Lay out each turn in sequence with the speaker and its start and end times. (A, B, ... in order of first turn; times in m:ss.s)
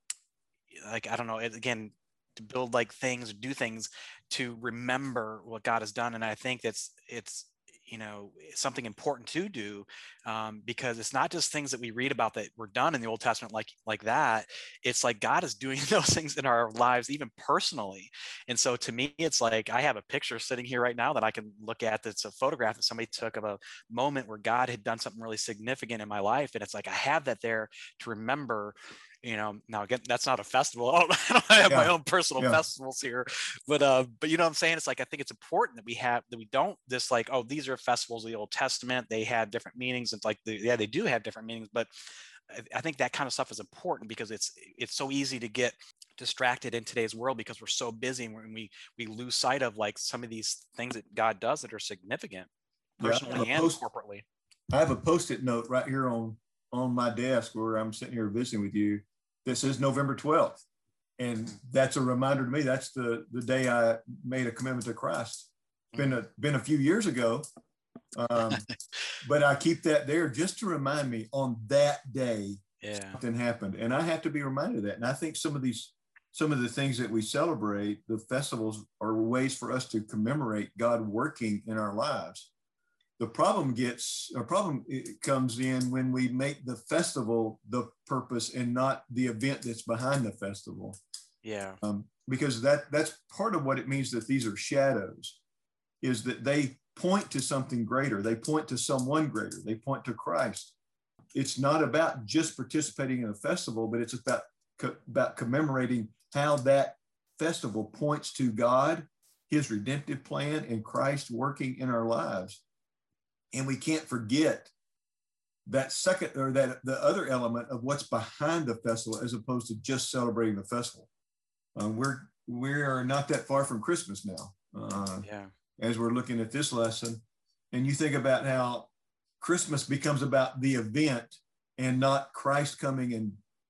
0:00.7-0:41.9 A
0:31.7-0:32.6 B
0:42.5-0:52.5 A
0:53.0-0:53.8 B
0:53.0-0:54.2 A
0:54.7-1:00.6 B
1:01.2-1:07.4 B
1:08.1-1:08.7 B
1:09.2-1:12.6 B
1:12.8-1:13.2 A
1:13.2-1:22.5 B
1:23.2-1:31.0 B
1:31.4-1:31.8 A
1:31.8-1:35.4 B
1:36.0-1:40.7 B
1:41.3-1:52.6 B
1:53.5-1:54.7 B
1:55.6-2:01.1 B
2:01.8-2:05.3 B
2:05.2-2:05.5 A
2:05.8-2:07.2 B
2:07.7-2:13.4 B